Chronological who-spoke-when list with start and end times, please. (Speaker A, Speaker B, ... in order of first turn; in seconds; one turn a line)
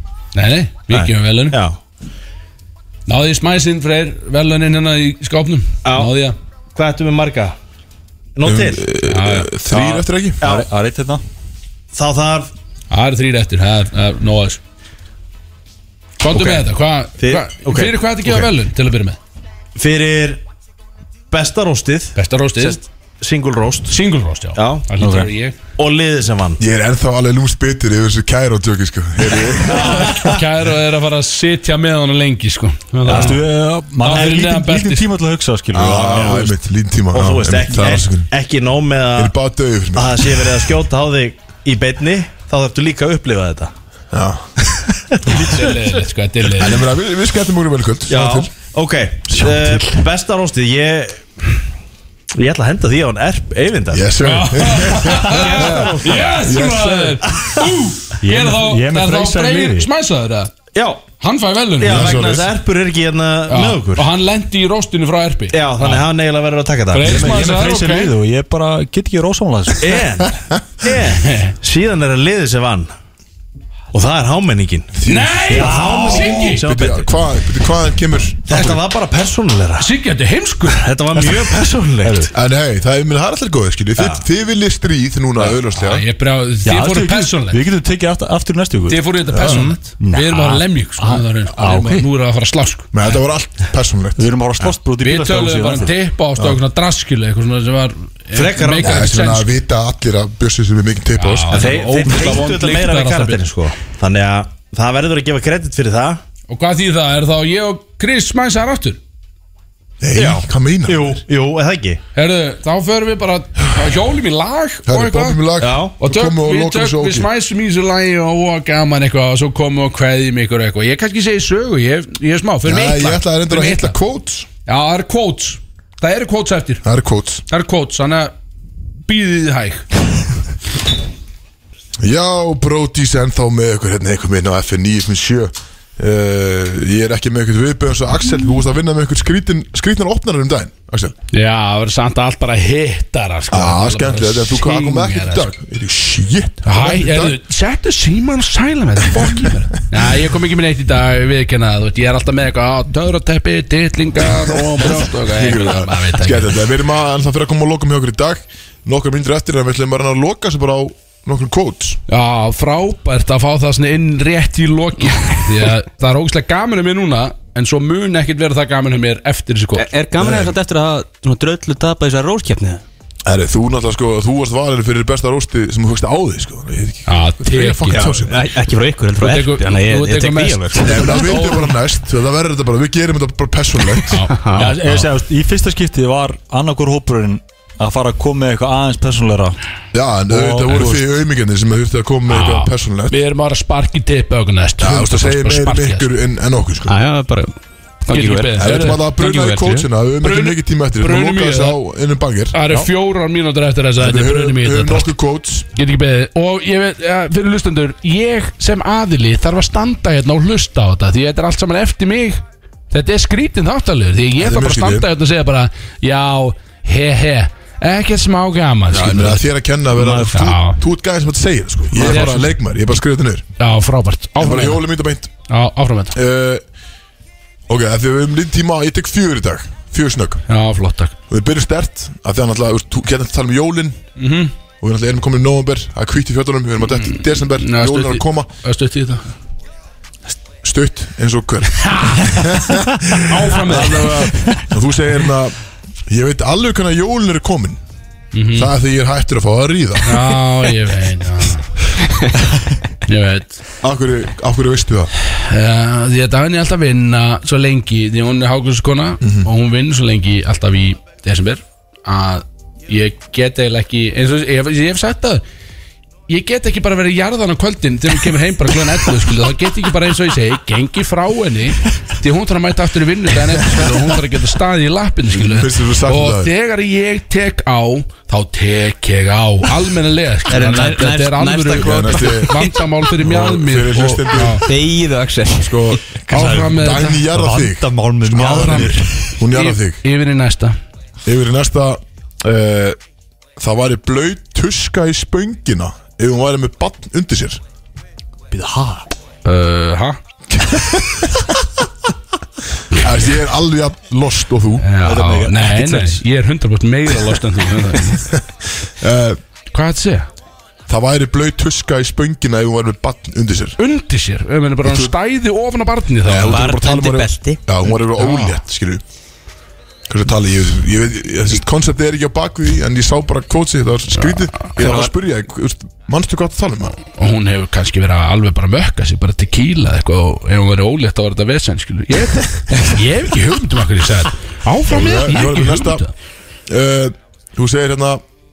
Speaker A: 0.3-1.6
Speaker B: 0.9-1.8
Speaker A: 3.1-6.3
Speaker B: 5.8-6.1
Speaker B: 6.7-7.5
Speaker B: 8.3-8.9
Speaker C: 8.4-10.4
Speaker A: 9.1-9.4
Speaker D: 9.8-11.2
Speaker B: 10.4-10.7
Speaker B: 11.9-12.5
Speaker A: 12.9-14.6
Speaker A: 16.2-19.2
Speaker B: 16.3-18.5
Speaker B: 19.7-20.4
Speaker B: 21.3-24.0
Speaker A: 22.1-22.8
Speaker A: 23.9-25.6
Speaker B: 24.5-24.9
Speaker D: 25.0-25.3
Speaker B: 25.8-26.6
Speaker C: 26.6-30.4
Speaker A: 29.6-33.4
Speaker D: 29.8-30.1
Speaker D: 33.0-36.5
Speaker B: 33.1-33.4
Speaker A: 34.0-35.1
Speaker B: 34.1-34.4
Speaker C: 35.7-38.3
Speaker B: 35.8-36.5
Speaker B: 37.1-39.3
Speaker C: 39.1-40.6
Speaker B: 39.9-43.7
Speaker C: 44.1-44.6
Speaker A: 45.2-46.9
Speaker C: 46.5-48.5
Speaker B: 48.1-51.5
Speaker D: 49.3-50.0
Speaker B: 52.3-54.1
Speaker C: 53.9-57.3
Speaker A: 54.2-60.5
Speaker B: 55.1-56.4
Speaker B: 57.3-57.6
Speaker D: 58.2-59.9
Speaker B: 60.7-61.0
Speaker A: 61.2-62.4
Speaker B: 61.8-64.1
Speaker C: 61.8-62.5
Speaker A: 63.5-66.0
Speaker B: 65.5-67.1
Speaker A: 66.9-68.1
Speaker D: 67.0-70.2
Speaker C: 67.0-67.9
Speaker B: 69.8-72.9
Speaker A: 71.2-71.5
Speaker B: 73.9-75.0
Speaker C: 74.9-78.8
Speaker A: 75.0-76.7
Speaker B: 75.5-77.0
Speaker D: 75.5-76.4
Speaker B: 78.5-79.9
Speaker A: 79.8-80.9
Speaker B: 80.7-82.3
Speaker D: 81.2-81.5
Speaker D: 82.0-82.3
Speaker C: 82.3-86.0
Speaker B: 84.0-84.2
Speaker A: 85.4-87.6
Speaker D: 86.6-92.1
Speaker A: 88.9-93.2
Speaker C: 89.3-89.7
Speaker B: 89.4-89.8
Speaker C: 92.9-94.3
Speaker D: 94.2-95.9
Speaker A: 95.0-99.5
Speaker B: 98.3-99.2
Speaker C: 98.8-101.9
Speaker A: 101.2-103.5
Speaker B: 101.5-106.2
Speaker A: 106.5-109.0
Speaker C: 110.0-111.2
Speaker B: 110.1-112.0
Speaker A: 112.1-115.4
Speaker C: 114.8-117.3
Speaker B: 115.6-116.0
Speaker A: 116.0-124.0
Speaker C: 122.6-124.5
Speaker A: 124.7-126.8
Speaker C: 126.8-127.4
Speaker A: 127.5-128.3
Speaker A: 129.1-129.8
Speaker C: 132.0-141.1
Speaker A: 141.3-145.5
Speaker C: 143.5-147.4
Speaker A: 146.6-156.6
Speaker C: 149.2-149.5
Speaker C: 154.3-162.0
Speaker A: 162.1-169.9
Speaker E: 169.8-172.8
Speaker C: 170.2-170.5
Speaker C: 173.2-178.4
Speaker A: 177.1-178.1
Speaker E: 177.9-181.1
Speaker A: 179.2-181.7
Speaker C: 180.7-184.3
Speaker A: 184.1-185.1
Speaker E: 184.3-184.7
Speaker D: 184.5-189.6
Speaker C: 189.9-193.2
Speaker D: 190.3-191.0
Speaker A: 192.3-196.1
Speaker C: 194.8-197.0
Speaker E: 196.9-199.9
Speaker A: 198.1-199.0
Speaker C: 198.6-202.8
Speaker A: 200.2-201.8
Speaker A: 202.5-205.2
Speaker C: 204.0-205.7
Speaker A: 205.7-219.5
Speaker C: 214.4-215.1
Speaker C: 218.9-223.4
Speaker E: 220.0-220.2
Speaker A: 220.3-220.8
Speaker A: 221.9-222.6
Speaker A: 223.6-224.8
Speaker C: 224.4-225.3
Speaker A: 225.5-226.1
Speaker C: 226.1-226.6
Speaker C: 227.7-230.4
Speaker A: 230.5-231.1
Speaker C: 231.3-234.0
Speaker A: 234.2-234.5
Speaker C: 234.8-238.5
Speaker A: 236.9-239.3
Speaker C: 240.6-247.8
Speaker A: 241.8-242.5
Speaker A: 243.3-244.2
Speaker A: 248.3-248.7
Speaker C: 248.5-250.4
Speaker A: 250.1-251.7
Speaker A: 253.1-253.6
Speaker C: 253.8-255.1
Speaker A: 255.3-265.4
Speaker C: 259.2-259.5
Speaker A: 266.3-284.6
Speaker C: 275.3-276.5
Speaker E: 280.5-282.8
Speaker C: 281.7-284.7
Speaker E: 284.6-286.0
Speaker C: 285.6-290.0
Speaker D: 286.3-289.3
Speaker A: 286.3-287.2
Speaker A: 288.5-290.8
Speaker C: 291.2-293.0
Speaker C: 293.6-297.6
Speaker D: 298.5-299.1
Speaker A: 299.4-300.2
Speaker C: 300.5-301.3
Speaker C: 302.9-304.9
Speaker A: 304.8-308.3
Speaker D: 305.0-306.2
Speaker C: 308.2-309.4
Speaker A: 309.7-310.3
Speaker C: 310.9-313.8
Speaker A: 313.8-316.7
Speaker C: 314.8-315.1
Speaker C: 316.2-319.0
Speaker E: 316.4-317.6
Speaker A: 318.1-318.6
Speaker C: 320.1-327.0
Speaker A: 324.1-325.1
Speaker A: 327.1-336.1
Speaker C: 334.9-336.1
Speaker C: 336.7-338.2